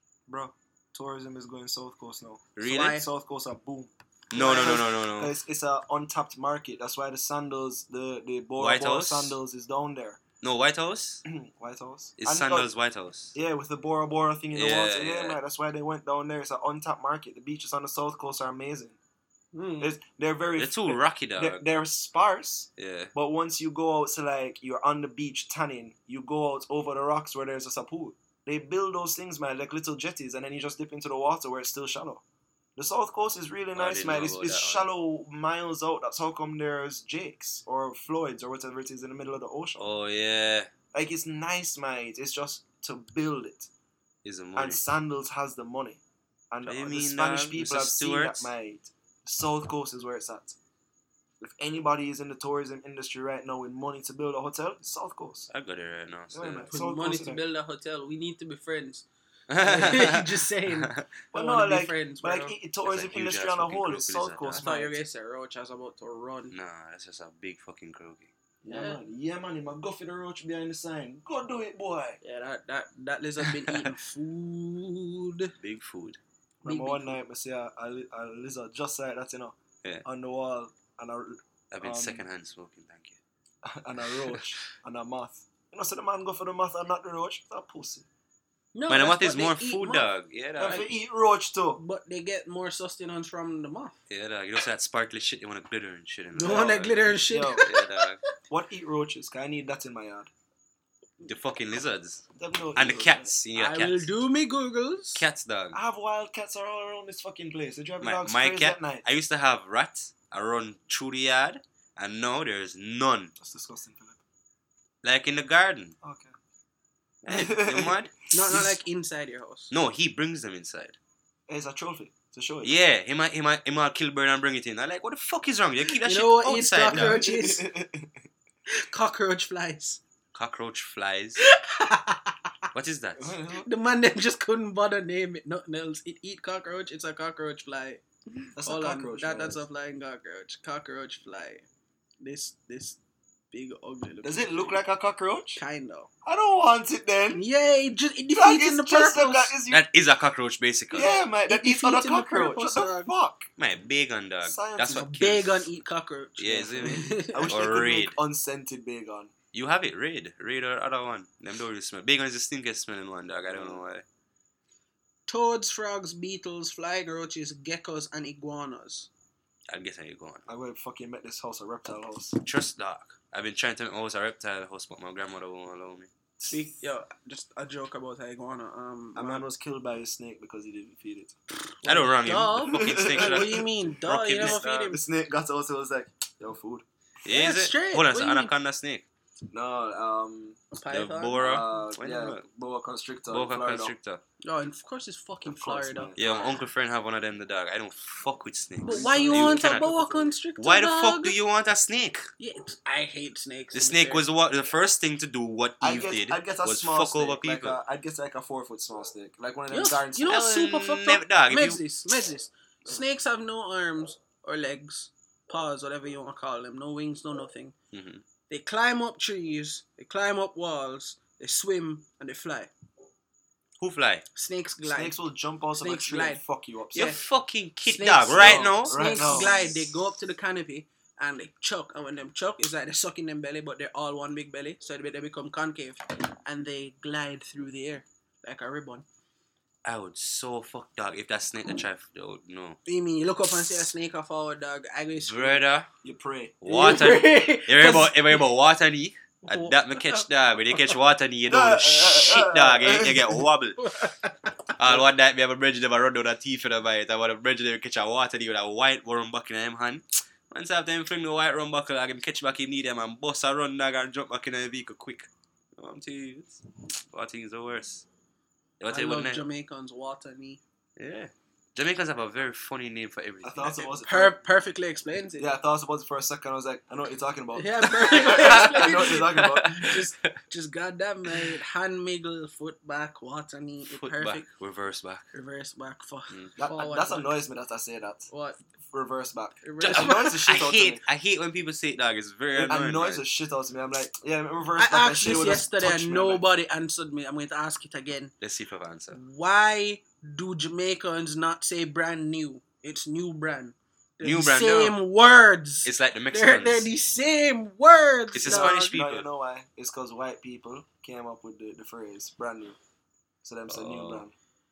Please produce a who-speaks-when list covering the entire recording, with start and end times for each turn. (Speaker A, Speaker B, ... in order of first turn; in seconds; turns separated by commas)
Speaker A: 0.3-10.2, Speaker B: 2.5-3.0, Speaker C: 2.6-3.0, Speaker B: 4.3-5.3, Speaker B: 8.6-9.3, Speaker B: 10.4-11.2, Speaker A: 11.2-12.7, Speaker B: 12.2-13.3, Speaker A: 13.3-19.0, Speaker B: 14.5-15.4, Speaker C: 19.5-19.9, Speaker A: 19.8-32.2, Speaker B: 20.6-21.6, Speaker B: 22.8-23.1, Speaker A: 32.8-39.8, Speaker B: 33.7-34.9, Speaker B: 39.8-40.7, Speaker A: 40.9-43.7, Speaker B: 44.2-44.8, Speaker A: 44.5-50.6, Speaker B: 46.6-48.5, Speaker A: 51.4-55.5, Speaker B: 55.5-56.7, Speaker A: 56.3-57.4, Speaker C: 56.7-62.5, Speaker B: 59.5-61.0, Speaker A: 61.3-65.0, Speaker B: 62.8-64.7, Speaker C: 64.6-66.5, Speaker B: 66.5-68.3, Speaker A: 68.6-72.2, Speaker C: 68.7-69.0, Speaker C: 72.2-75.5, Speaker B: 73.5-73.9, Speaker B: 75.6-76.2, Speaker A: 76.6-82.2, Speaker C: 76.6-77.2, Speaker B: 81.7-83.2, Speaker A: 83.6-88.0, Speaker C: 88.7-90.9, Speaker B: 88.9-90.8, Speaker A: 90.6-91.8, Speaker C: 91.8-94.0, Speaker B: 94.1-98.2, Speaker A: 96.4-96.7, Speaker C: 96.4-98.0, Speaker A: 97.3-97.6, Speaker A: 98.5-100.3, Speaker B: 101.2-104.1, Speaker A: 102.4-103.3, Speaker C: 103.5-105.2, Speaker B: 105.2-105.8, Speaker A: 105.7-109.0, Speaker B: 108.0-113.3, Speaker A: 113.4-114.2, Speaker B: 115.0-115.9, Speaker A: 116.0-116.3, Speaker A: 117.2-118.8, Speaker B: 117.3-118.1, Speaker C: 118.3-119.7, Speaker B: 119.7-121.0, Speaker A: 121.5-122.7, Speaker B: 122.6-127.2, Speaker C: 126.0-127.6, Speaker A: 126.9-128.2, Speaker C: 128.7-130.0, Speaker B: 130.3-131.4, Speaker C: 131.4-132.5, Speaker B: 132.7-133.4, Speaker A: 133.2-133.7, Speaker C: 133.5-141.7, Speaker A: 138.6-139.6, Speaker C: 142.2-143.0, Speaker C: 143.5-144.8, Speaker A: 144.2-145.6, Speaker C: 145.6-146.1, Speaker A: 146.2-147.4, Speaker C: 147.3-149.5, Speaker A: 148.3-149.8, Speaker B: 149.7-151.1, Speaker A: 150.9-153.5, Speaker C: 151.4-153.1, Speaker B: 153.6-155.7, Speaker A: 154.4-155.3, Speaker C: 155.1-157.5, Speaker B: 156.4-158.2, Speaker A: 156.8-159.3, Speaker B: 159.5-164.0, Speaker A: 163.5-163.8, Speaker C: 165.3-169.1, Speaker B: 169.7-170.4, Speaker A: 170.5-172.4, Speaker B: 172.4-176.1, Speaker A: 176.4-176.7, Speaker C: 176.5-179.4, Speaker A: 179.1-181.3, Speaker B: 181.8-184.9, Speaker C: 181.8-185.0, Speaker A: 182.7-186.8, Speaker B: 187.2-189.0, Speaker C: 187.2-188.5, Speaker A: 189.5-190.6, Speaker C: 190.7-191.6, Speaker B: 190.9-192.4, Speaker A: 191.4-193.9, Speaker B: 193.3-194.2, Speaker C: 194.4-196.1, Speaker A: 195.4-196.6, Speaker B: 196.2-199.9, Speaker C: 198.8-201.3, Speaker A: 198.8-200.3, Speaker B: 200.6-202.2, Speaker C: 202.4-204.2, Speaker B: 203.7-207.8, Speaker A: 205.8-210.4, Speaker C: 209.7-217.7, Speaker B: 210.3-211.8, Speaker B: 217.9-218.2, Speaker C: 218.5-222.7, Speaker B: 223.8-224.2, Speaker C: 224.3-225.2, Speaker A: 224.8-227.2, Speaker C: 225.8-226.4, Speaker C: 226.9-227.2, Speaker B: 226.9-229.5, Speaker C: 227.9-239.0, Speaker A: 228.3-229.9, Speaker B: 239.8-242.8, Speaker C: 242.8-245.6, Speaker B: 245.2-245.9, Speaker A: 246.0-246.5, Speaker B: 246.6-253.8, Speaker C: 246.7-248.4, Speaker C: 249.5-250.2, Speaker A: 251.5-253.4, Speaker C: 253.8-254.7, Speaker B: 254.8-268.0, Speaker B: 268.8-269.4, Speaker C: 268.9-270.6, Speaker B: 271.0-273.9, Speaker A: 273.4-274.4, Speaker C: 274.1-275.5, Speaker A: 275.4-279.9, Speaker C: 277.5-284.4, Speaker B: 278.2-280.3, Speaker B: 283.9-285.2, Speaker C: 285.3-287.4, Speaker A: 286.6-288.3, Speaker C: 288.3-288.6, Speaker A: 288.9-291.0, Speaker C: 289.6-290.5, Speaker B: 289.8-293.2, Speaker A: 292.5-296.4, Speaker C: 294.8-298.3, Speaker B: 298.4-299.2, Speaker C: 299.1-309.0, Speaker B: 304.2-305.0, Speaker B: 305.8-306.9, Speaker B: 308.3-309.3, Speaker A: 308.4-312.8, Speaker A: 313.4-314.3, Speaker B: 313.7-314.2